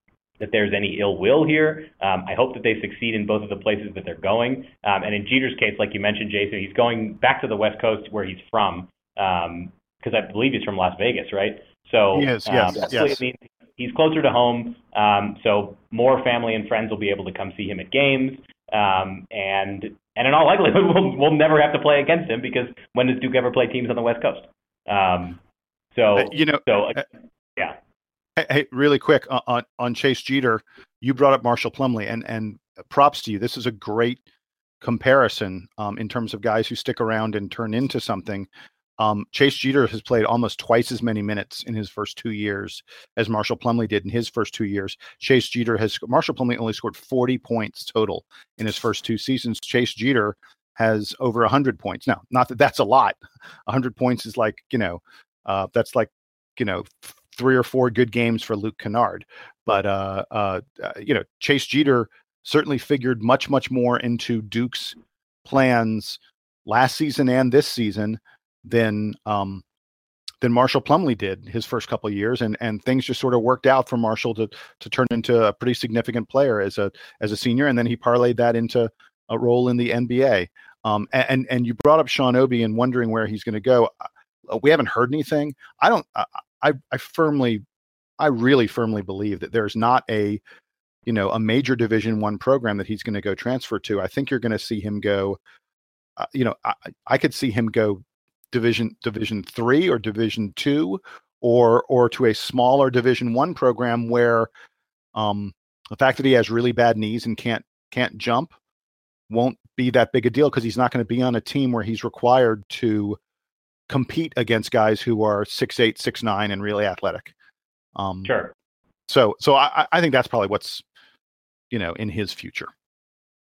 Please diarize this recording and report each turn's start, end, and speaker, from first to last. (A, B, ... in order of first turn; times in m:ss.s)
0:00.4-0:25.4 A
0:12.1-0:13.2 B
0:25.9-0:27.1 A
0:26.2-0:27.0 B
0:28.4-0:34.2 B
0:34.8-0:38.5 B
0:39.0-1:09.6 B
1:10.4-1:23.9 B
1:24.5-1:27.6 B
1:28.2-1:30.4 B
1:31.1-1:35.4 B
1:36.2-1:44.5 B
1:45.2-1:48.5 B
1:49.3-1:53.2 B
1:53.9-1:57.3 B
1:58.0-1:58.3 B
1:58.2-1:58.5 A
1:59.1-2:00.8 B
2:01.7-2:02.7 B